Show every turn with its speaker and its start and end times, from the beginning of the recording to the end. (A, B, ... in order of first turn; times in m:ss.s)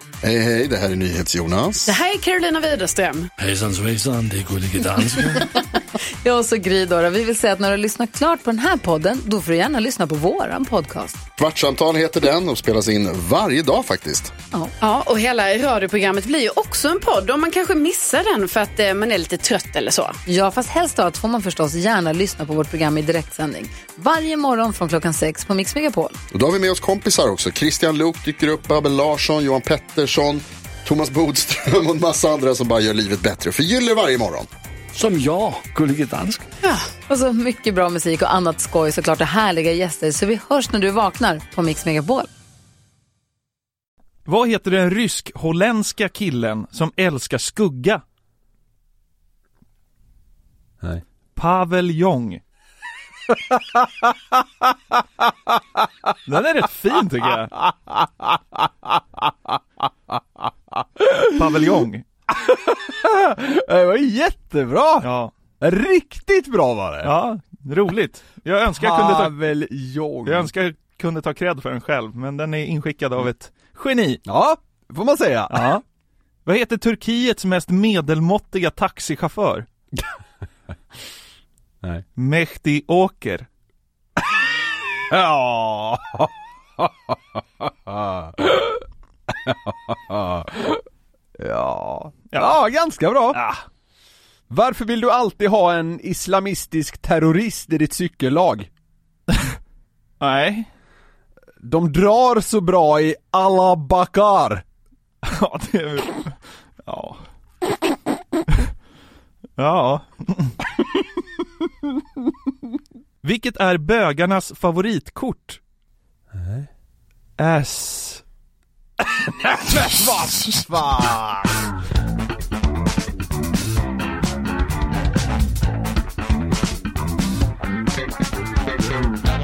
0:00.2-0:01.9 A
0:01.9-0:03.3 B
0:03.4-0:05.4 C
0:06.2-0:11.2 D
0:11.4-0:14.3 A
0:14.8-0:20.2 B
0:20.3-0:26.2 D
0:26.3-0:34.5 A
0:34.9-0:36.5 C
0:37.1-0:42.3 D
0:44.3-0:48.0 E
0:51.4-0:52.4 E
0:53.3-0:55.9 F
0:56.3-0:57.6 E
0:57.6-0:59.6 F
1:00.1-1:01.6 F
1:01.4-1:02.1 E
1:02.3-1:05.1 F
1:05.0-1:05.3 E
1:05.6-1:07.1 F
1:07.0-1:09.3 E
1:08.8-1:10.5 F
1:10.2-1:14.2 E
1:14.3-1:15.7 F
1:15.5-1:15.8 E
1:16.5-1:19.7 E
1:22.2-1:23.5 E
1:25.1-1:30.8 F
1:31.4-1:33.4 F
1:33.3-1:33.6 E
1:34.5-1:38.7 F
1:40.2-1:40.7 E
1:41.6-1:44.6 F
1:45.2-1:47.2 E
1:49.6-1:50.6 E
1:53.2-1:55.6 E
1:56.3-1:56.7 F
1:57.4-1:58.2 E
1:59.1-2:01.6 F